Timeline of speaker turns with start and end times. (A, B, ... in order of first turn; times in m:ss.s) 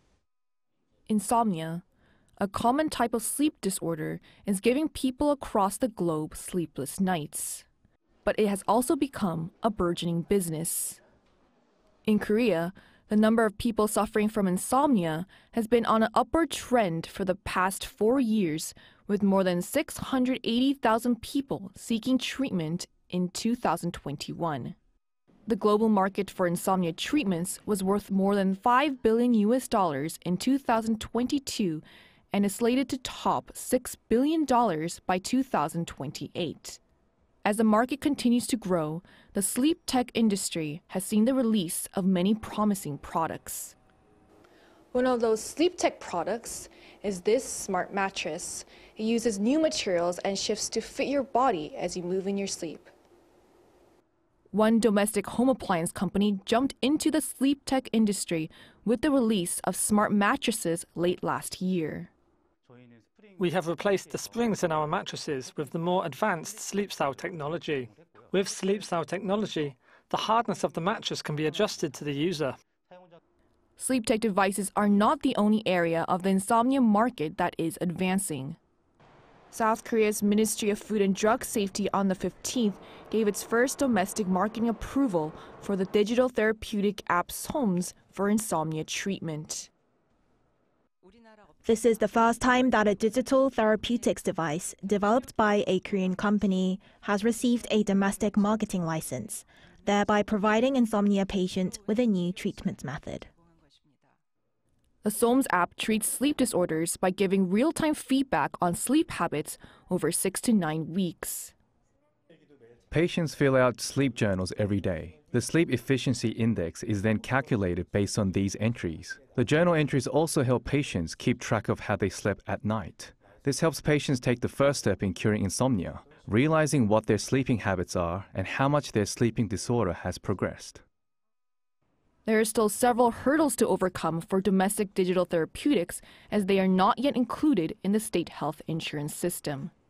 0:01.1-0:01.8 A
0:02.4-0:07.6 A
0:08.2-0:11.0 A
0:12.0-0:24.8 A
0:25.5-0:36.8 A
0:37.4-0:43.8 A
0:44.9-0:52.9 A
0:54.5-1:02.1 A
1:03.4-1:12.6 B
1:13.8-1:18.6 A
1:19.5-1:29.7 A
1:31.6-1:43.3 C
1:45.0-1:51.5 A
1:52.9-2:10.8 D
2:12.2-2:19.7 A